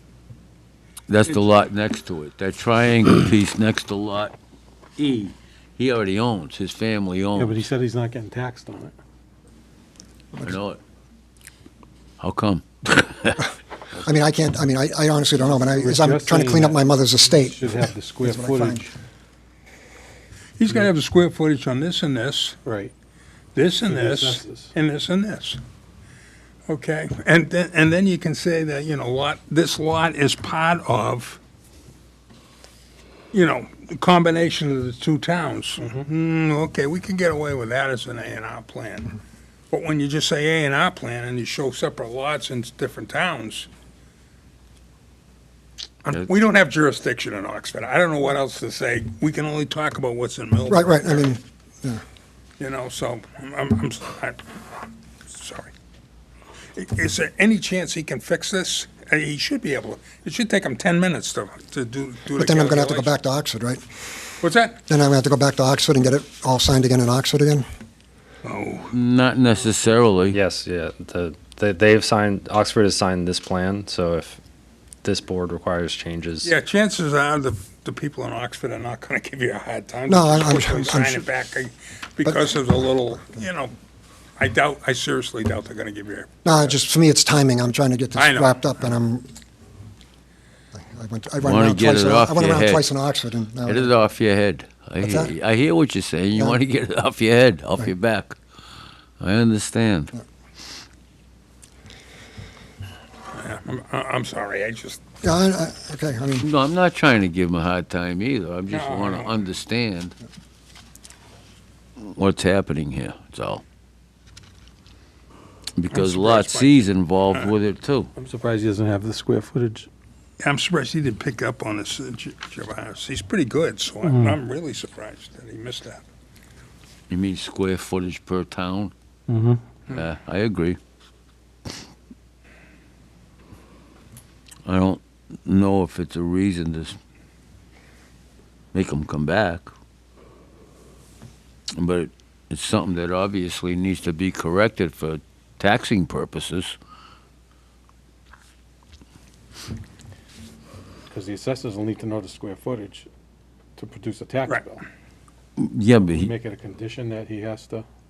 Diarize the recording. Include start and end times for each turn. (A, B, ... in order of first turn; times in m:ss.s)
0:01.1-0:04.3 A
0:05.0-0:07.7 A
0:07.3-0:08.9 B
0:10.4-0:10.8 A
0:12.2-0:14.1 A
0:14.0-0:18.9 C
0:15.6-0:18.9 B
0:20.6-0:22.6 D
0:22.6-0:22.9 B
0:23.6-0:25.6 D
0:23.9-0:24.8 B
0:26.7-0:31.4 D
0:33.3-0:39.2 D
0:35.8-0:36.0 B
0:39.7-0:43.7 D
0:46.0-0:51.4 D
0:50.7-0:52.0 C
0:52.6-0:55.7 D
0:56.8-1:03.2 D
1:02.4-1:03.8 C
1:04.4-1:04.8 D
1:04.9-1:07.6 C
1:08.4-1:08.9 D
1:08.9-1:10.4 A
1:10.3-1:14.4 E
1:15.0-1:16.5 E
1:16.4-1:23.7 D
1:20.1-1:21.2 C
1:24.4-1:26.3 D
1:26.4-1:29.3 C
1:28.1-1:28.6 D
1:30.7-1:33.9 C
1:31.4-1:32.9 A
1:33.6-1:38.4 A
1:35.0-1:35.3 C
1:39.2-1:40.1 A
1:43.3-1:45.0 D
1:45.2-1:46.4 C
1:46.4-1:50.1 A
1:48.7-1:49.4 D
1:52.0-1:53.6 A
1:55.8-1:58.1 A
1:55.9-1:57.5 D
1:58.2-1:59.9 B
2:00.4-2:06.0 D
2:04.0-2:04.4 B
2:07.1-2:08.9 A
2:09.3-2:09.6 B
2:09.9-2:10.8 A
2:14.6-2:17.0 A
2:18.7-2:19.7 A
2:21.7-2:26.8 A
2:31.1-2:33.1 B
2:33.8-2:34.8 B
2:35.6-2:36.3 A
2:36.0-2:37.8 B